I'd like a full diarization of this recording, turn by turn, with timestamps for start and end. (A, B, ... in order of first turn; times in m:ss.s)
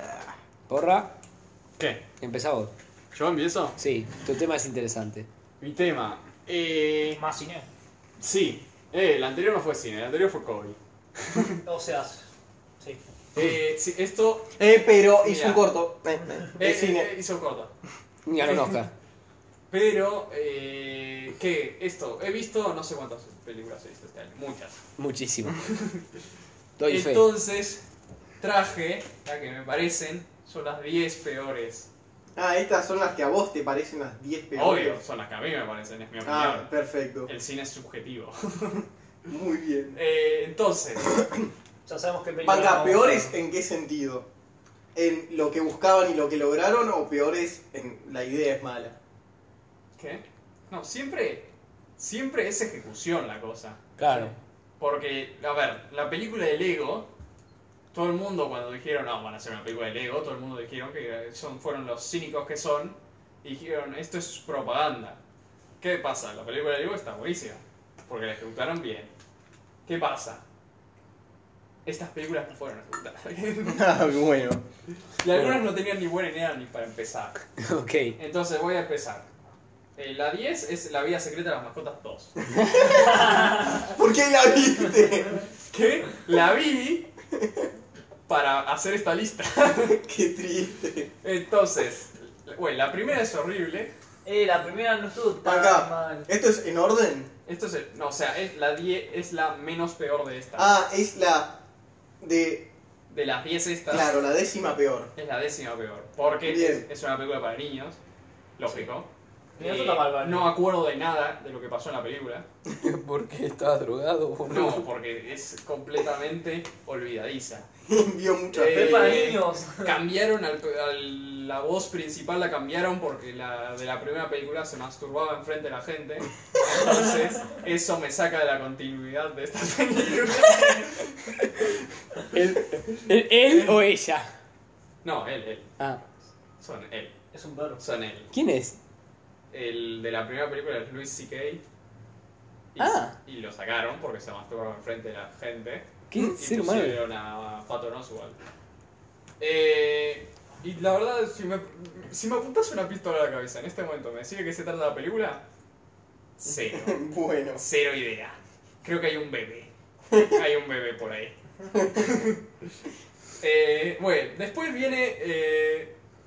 0:00.7-0:01.1 A
0:01.8-0:02.0 B
0:02.2-0:02.7 A
0:03.1-0:03.8 B
0:03.8-0:05.3 A
0:05.6-0:07.2 B
0:07.2-0:07.7 C
0:08.2-0:11.6 B
0:11.6-0:12.3 C
0:13.3-0:14.5 B
0:14.6-0:17.1 D
0:15.2-0:15.6 B
0:16.6-0:17.7 B
0:18.2-0:18.9 A
0:18.4-0:18.8 B
0:19.7-0:24.8 B
0:25.0-0:25.6 A
0:25.6-0:26.1 B
0:26.8-0:27.2 A
0:26.9-0:27.8 B
0:28.4-0:31.9 B
0:32.4-0:35.0 D
0:34.5-0:36.7 B
0:36.2-0:37.3 D
0:37.2-0:38.8 B
0:39.3-0:40.0 D
0:39.9-0:41.2 B
0:41.1-0:41.5 D
0:41.8-0:43.3 C
0:42.4-0:44.3 D
0:44.9-0:49.0 D
0:50.0-0:57.1 B
0:54.0-0:54.3 A
0:57.9-1:05.2 B
1:05.8-1:09.1 B
1:09.8-1:10.4 B
1:11.8-1:14.0 B
1:13.6-1:14.6 D
1:15.2-1:17.4 B
1:15.3-1:15.6 A
1:17.6-1:18.2 A
1:18.2-1:19.3 B
1:20.0-1:23.3 B
1:22.6-1:22.9 A
1:22.7-1:25.4 D
1:25.7-1:27.1 B
1:27.3-1:27.6 D
1:28.3-1:30.0 B
1:29.9-1:31.1 D
1:31.2-1:33.9 B
1:34.2-1:36.3 C
1:35.4-1:37.3 D
1:37.4-1:40.7 B
1:40.6-1:41.6 D
1:42.2-1:42.7 D
1:43.1-1:44.1 B
1:43.9-1:45.1 D
1:45.2-1:48.0 B
1:46.4-1:46.8 D
1:48.6-1:52.4 B
1:49.6-1:50.5 C
1:52.7-1:54.9 A
1:54.5-1:57.7 B
1:57.8-1:59.2 D
1:58.5-2:11.7 B
1:58.6-2:00.0 C
2:12.3-2:14.3 A
2:12.9-2:13.8 B
2:15.0-2:15.8 B
2:16.6-2:17.1 B
2:17.3-2:17.8 C
2:17.8-2:18.3 B
2:18.3-2:18.8 A
2:19.5-2:21.6 B
2:22.7-2:28.4 B
2:22.8-2:23.2 A
2:26.1-2:27.0 A
2:29.4-2:35.4 B
2:36.4-2:37.0 B
2:36.5-2:37.6 D
2:37.6-2:41.3 B
2:40.1-2:40.4 D
2:41.7-2:42.0 D
2:41.9-2:42.7 B
2:43.4-2:46.0 B